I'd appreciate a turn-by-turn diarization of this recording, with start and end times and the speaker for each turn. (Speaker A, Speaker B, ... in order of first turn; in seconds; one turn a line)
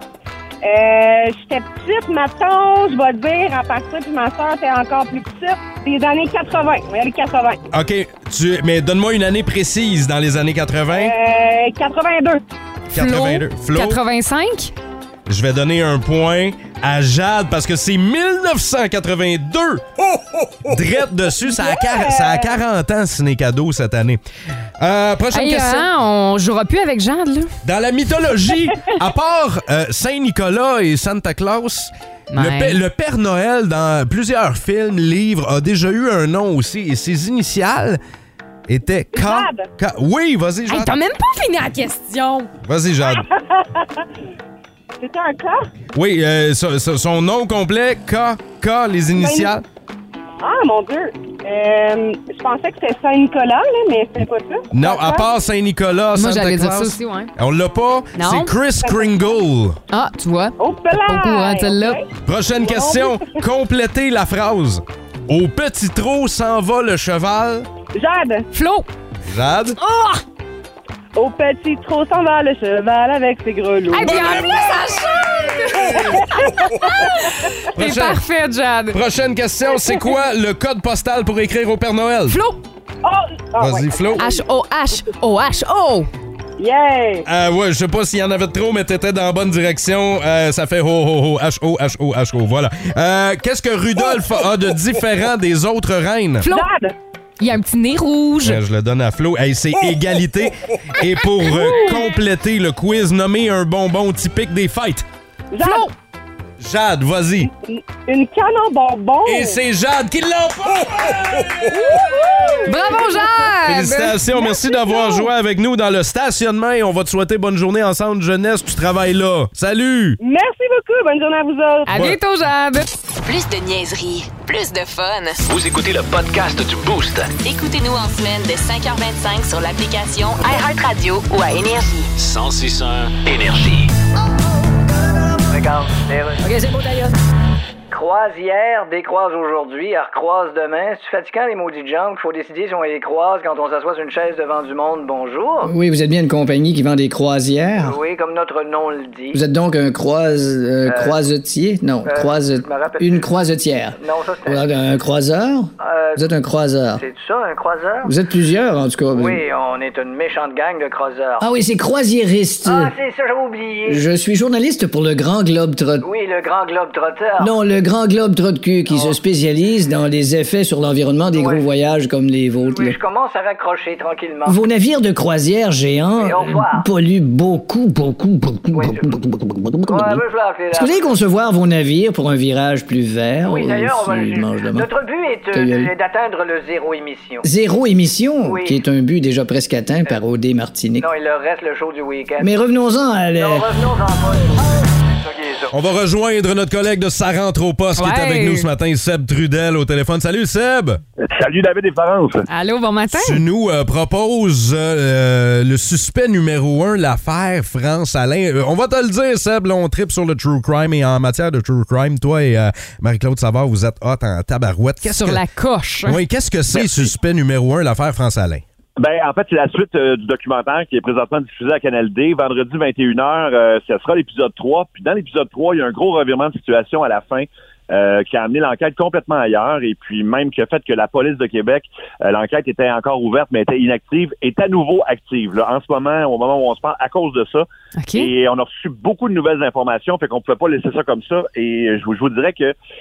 Speaker A: 0.6-7.6
Speaker B: 7.7-11.1
Speaker A: 10.9-12.4
Speaker B: 12.9-14.0
Speaker C: 12.9-14.7
Speaker B: 15.3-24.2
Speaker A: 21.5-22.5
Speaker B: 24.8-25.9
Speaker C: 25.3-27.5
Speaker B: 27.6-38.0
Speaker C: 32.3-32.8
Speaker B: 38.7-41.0
Speaker A: 39.1-39.7
Speaker C: 40.7-42.5
Speaker B: 42.6-43.3
Speaker A: 43.0-43.8
Speaker A: 45.0-45.7
Speaker B: 45.9-49.6
Speaker A: 49.2-49.6
Speaker A: 50.4-55.3
Speaker B: 54.7-59.8
Speaker C: 56.1-57.3
Speaker C: 58.2-58.5
Speaker A: 58.8-59.4
Speaker C: 59.9-62.0
Speaker A: 60.6-62.1
Speaker B: 62.2-67.7
Speaker A: 62.6-63.4
Speaker A: 67.9-68.5
Speaker C: 68.5-68.9
Speaker B: 69.3-69.8
Speaker C: 69.8-70.2
Speaker A: 71.2-74.4
Speaker C: 73.9-79.0
Speaker B: 74.0-77.0
Speaker A: 76.0-76.7
Speaker B: 77.7-78.2
Speaker B: 78.9-82.4
Speaker A: 79.7-80.1
Speaker C: 82.3-82.6
Speaker A: 83.0-84.4
Speaker B: 83.6-84.3
Speaker C: 84.2-86.1
Speaker A: 86.6-87.3
Speaker B: 87.2-96.5
Speaker C: 96.4-96.7
Speaker A: 96.5-96.9
Speaker C: 97.4-98.6
Speaker B: 98.4-105.1
Speaker C: 101.6-102.0
Speaker A: 101.6-102.0
Speaker A: 105.5-105.9
Speaker C: 105.6-105.9
Speaker B: 106.6-107.5
Speaker A: 107.5-109.6
Speaker B: 109.2-112.2
Speaker C: 111.7-114.2
Speaker A: 111.8-113.5
Speaker B: 113.7-120.2
Speaker A: 114.3-115.3
Speaker A: 120.2-121.9
Speaker C: 121.9-122.9
Speaker B: 121.9-122.2
Speaker D: 123.2-125.4
Speaker E: 125.5-127.3
Speaker D: 127.4-132.1
Speaker E: 132.2-133.9
Speaker F: 135.5-137.1
Speaker G: 136.4-136.7
Speaker F: 137.9-145.7
Speaker G: 145.6-148.0
Speaker F: 147.8-149.4
Speaker G: 149.3-157.0
Speaker F: 150.9-151.2
Speaker F: 152.1-153.2
Speaker F: 154.0-154.7
Speaker F: 155.8-156.2
Speaker F: 157.0-158.1
Speaker G: 158.0-159.4
Speaker F: 159.1-161.4
Speaker G: 161.4-162.9
Speaker F: 162.7-164.0
Speaker G: 163.9-166.1
Speaker F: 166.0-167.5
Speaker G: 167.4-173.0
Speaker F: 168.9-169.2
Speaker F: 171.3-171.7
Speaker F: 172.6-174.6
Speaker G: 174.4-184.9
Speaker F: 176.2-176.9
Speaker F: 178.7-179.1
Speaker F: 179.9-181.1
Speaker F: 183.5-187.5
Speaker G: 185.5-185.9
Speaker G: 187.4-191.1
Speaker F: 188.4-188.8
Speaker F: 191.0-192.5
Speaker G: 192.4-194.3
Speaker F: 193.4-195.7
Speaker B: 195.7-201.0
Speaker C: 198.0-198.7
Speaker H: 201.3-202.5
Speaker C: 202.5-203.4
Speaker B: 203.1-215.4
Speaker C: 215.0-216.2
Speaker B: 216.1-218.6
Speaker H: 219.0-242.7
Speaker C: 238.0-238.3